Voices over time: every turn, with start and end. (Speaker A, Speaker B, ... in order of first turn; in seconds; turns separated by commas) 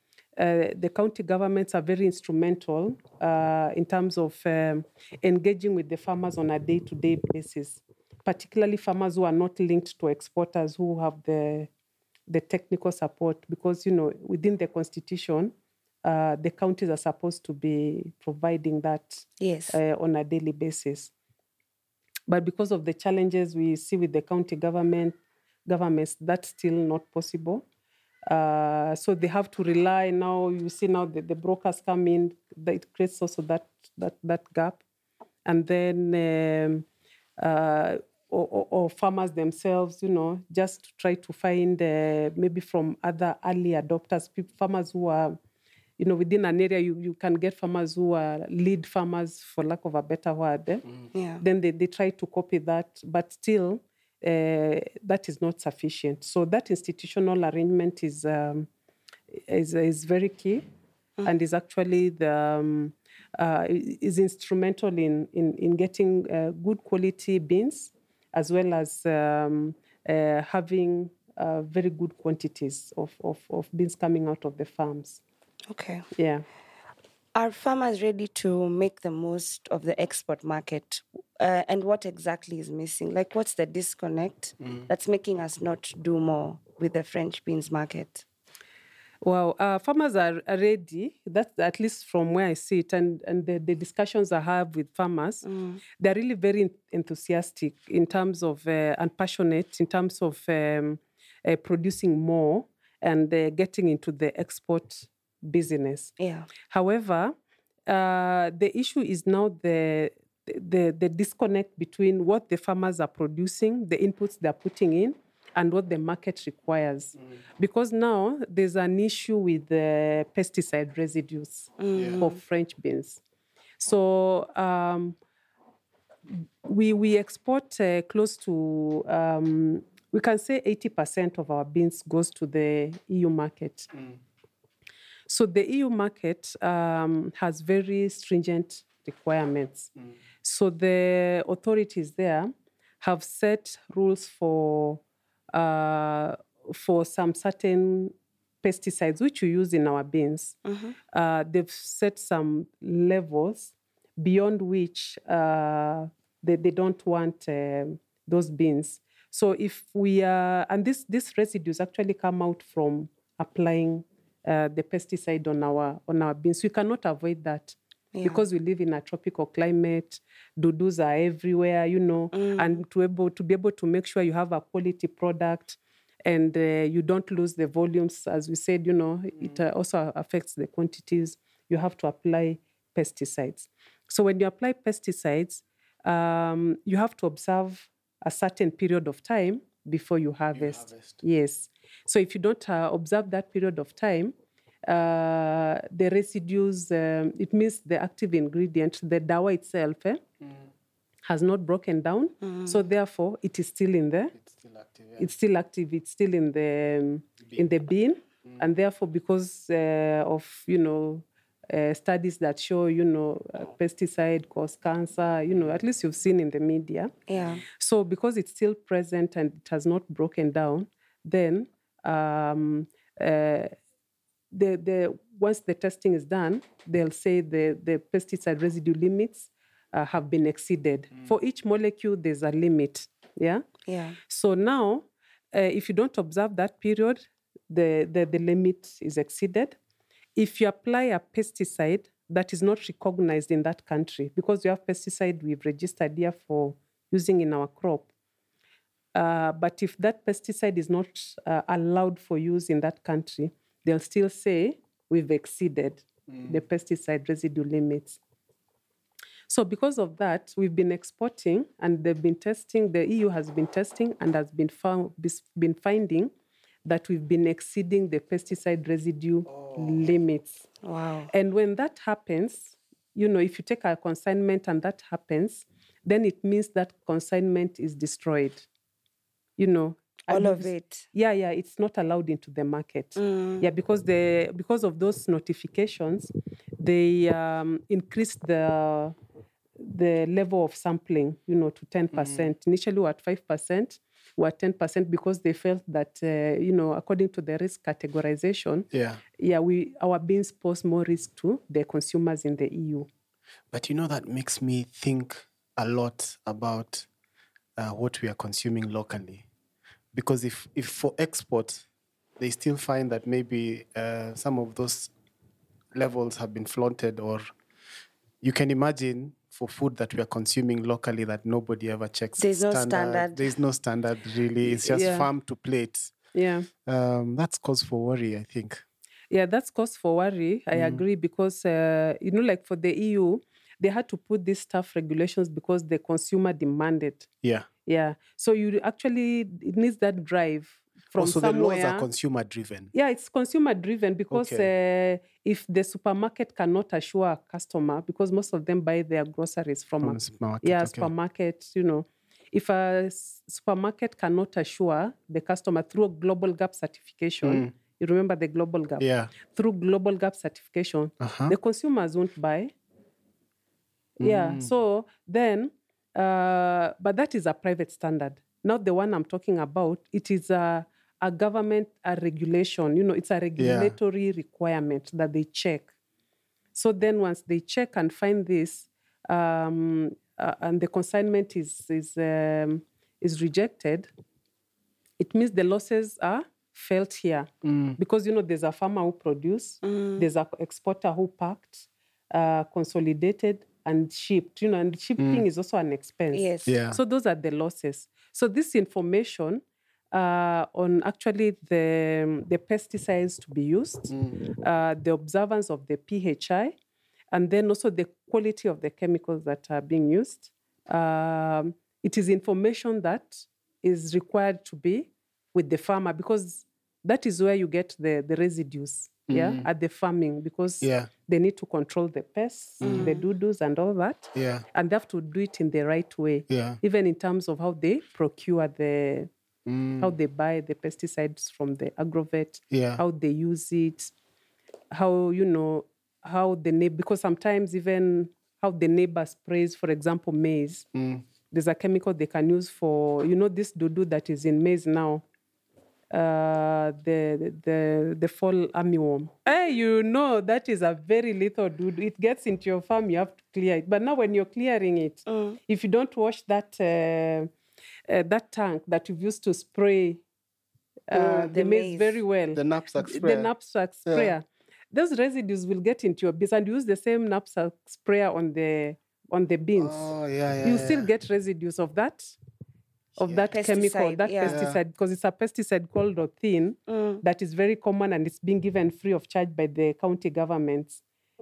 Speaker A: 0.4-11.7, Speaker A: 12.3-15.5, Speaker A: 16.0-21.1, Speaker B: 19.4-19.8, Speaker A: 22.3-27.6, Speaker A: 28.3-34.8, Speaker A: 35.5-36.9, Speaker A: 37.4-45.4, Speaker A: 46.0-50.9, Speaker B: 51.1-51.4, Speaker A: 51.4-58.7, Speaker A: 59.3-60.6, Speaker A: 61.2-75.2, Speaker B: 75.7-76.1, Speaker A: 76.2-76.5, Speaker B: 77.3-88.2, Speaker A: 89.2-95.4, Speaker B: 95.5-95.8, Speaker A: 96.0-107.3, Speaker B: 106.2-106.5, Speaker A: 107.9-123.2, Speaker B: 121.8-122.4, Speaker C: 122.0-122.2, Speaker A: 123.8-125.2, Speaker A: 126.3-133.9, Speaker A: 135.3-139.9, Speaker A: 140.4-145.0, Speaker A: 145.5-150.6, Speaker B: 150.7-151.0, Speaker A: 151.1-194.3, Speaker B: 168.1-168.4, Speaker B: 172.3-172.8, Speaker C: 190.6-191.2, Speaker A: 194.9-200.2, Speaker A: 201.2-204.3, Speaker B: 202.4-202.8, Speaker C: 204.4-205.2, Speaker A: 205.2-217.1, Speaker B: 217.3-217.6, Speaker A: 217.7-223.7, Speaker A: 224.5-233.7, Speaker B: 233.9-234.2, Speaker A: 234.3-239.8, Speaker A: 240.4-248.1, Speaker A: 249.2-258.2, Speaker A: 259.5-266.3, Speaker A: 266.9-270.6, Speaker C: 269.6-269.8, Speaker B: 270.8-271.3, Speaker A: 271.3-278.7, Speaker A: 279.6-289.1, Speaker B: 280.3-281.1, Speaker B: 283.2-283.7, Speaker A: 289.8-303.1, Speaker C: 292.2-292.4, Speaker C: 298.9-299.2, Speaker C: 303.7-307.1, Speaker C: 307.8-309.4, Speaker C: 310.1-311.9, Speaker C: 312.4-315.1, Speaker C: 315.9-317.5, Speaker C: 318.4-326.1, Speaker B: 322.4-323.5, Speaker A: 324.8-325.3, Speaker A: 326.3-326.7, Speaker C: 326.9-328.8, Speaker A: 329.3-337.3, Speaker C: 330.7-331.0, Speaker C: 337.4-337.7, Speaker A: 337.9-342.1, Speaker C: 341.2-342.9, Speaker A: 342.9-362.7, Speaker C: 344.3-344.7, Speaker C: 350.0-351.1, Speaker C: 357.4-357.7, Speaker C: 359.0-359.3, Speaker C: 361.2-361.6, Speaker A: 364.2-375.9, Speaker C: 364.2-364.7, Speaker C: 373.6-373.9, Speaker A: 376.8-384.1, Speaker A: 385.2-406.8, Speaker C: 387.6-388.0, Speaker B: 389.8-390.3, Speaker C: 395.2-395.4, Speaker B: 396.3-396.7, Speaker C: 396.7-397.0, Speaker C: 404.1-404.4, Speaker A: 407.3-429.3, Speaker C: 419.3-419.7, Speaker C: 420.8-421.1, Speaker C: 422.8-423.1, Speaker B: 422.8-423.2, Speaker C: 424.4-424.6, Speaker C: 426.5-426.8, Speaker C: 429.7-430.1, Speaker A: 430.0-434.1, Speaker C: 432.7-433.0, Speaker A: 434.9-440.9, Speaker C: 440.9-441.2, Speaker A: 441.5-445.2, Speaker A: 446.1-457.5, Speaker B: 455.3-455.6, Speaker A: 458.1-460.2, Speaker A: 461.1-470.1, Speaker B: 461.2-462.2, Speaker C: 462.5-463.5, Speaker C: 464.1-464.3, Speaker C: 469.8-471.1, Speaker A: 470.6-472.4, Speaker A: 473.2-481.0, Speaker C: 473.2-473.5, Speaker B: 473.5-474.6, Speaker C: 474.4-474.8, Speaker B: 476.9-477.2